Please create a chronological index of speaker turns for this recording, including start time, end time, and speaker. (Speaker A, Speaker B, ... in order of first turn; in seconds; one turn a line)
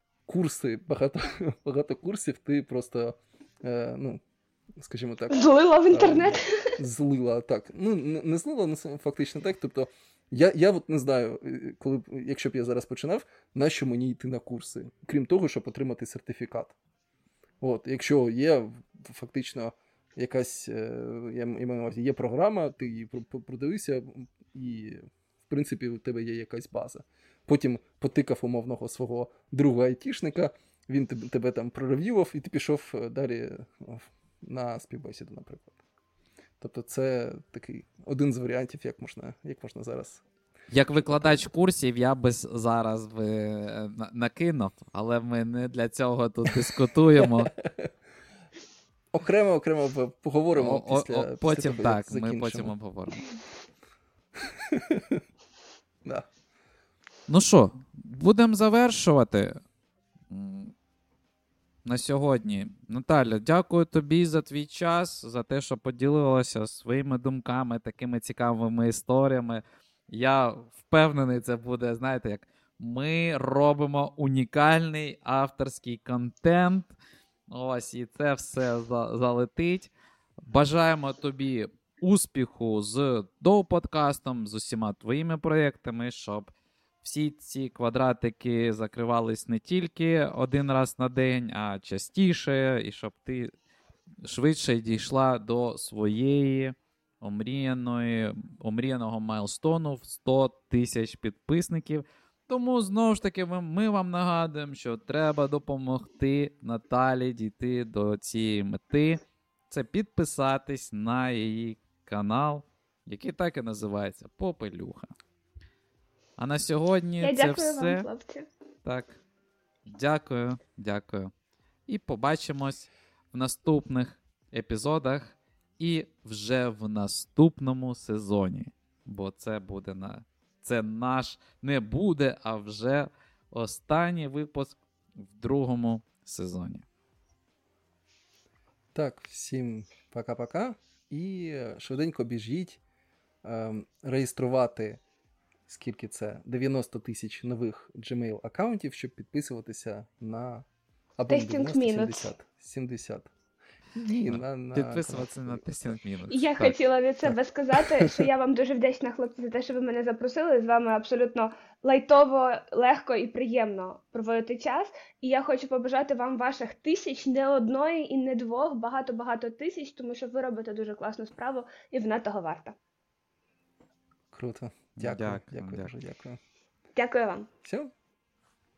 Speaker A: 0.3-4.2
Speaker A: 4.7-16.8
Speaker B: 5.3-6.7
Speaker A: 17.6-35.8
Speaker A: 36.6-40.2
Speaker C: 40.7-47.5
Speaker A: 41.0-41.5
Speaker A: 46.5-47.9
Speaker A: 49.1-52.7
Speaker C: 50.5-53.2
Speaker A: 54.4-55.2
Speaker C: 57.3-59.6
Speaker C: 60.3-60.7
Speaker C: 61.8-76.9
Speaker C: 77.5-86.5
Speaker C: 87.0-93.5
Speaker C: 94.2-115.1
Speaker C: 116.4-118.0
Speaker B: 117.2-118.5
Speaker C: 118.8-119.2
Speaker C: 119.9-121.3
Speaker C: 121.9-136.8
Speaker A: 138.9-142.8
Speaker A: 143.4-145.0
Speaker A: 145.7-150.7
Speaker A: 151.2-153.3
Speaker B: 151.3-152.3
Speaker A: 153.9-156.0
Speaker C: 154.3-156.8
Speaker B: 156.3-172.8
Speaker A: 158.0-158.3
Speaker A: 174.3-176.4
Speaker C: 175.0-175.9
Speaker B: 176.9-177.5
Speaker A: 177.6-177.9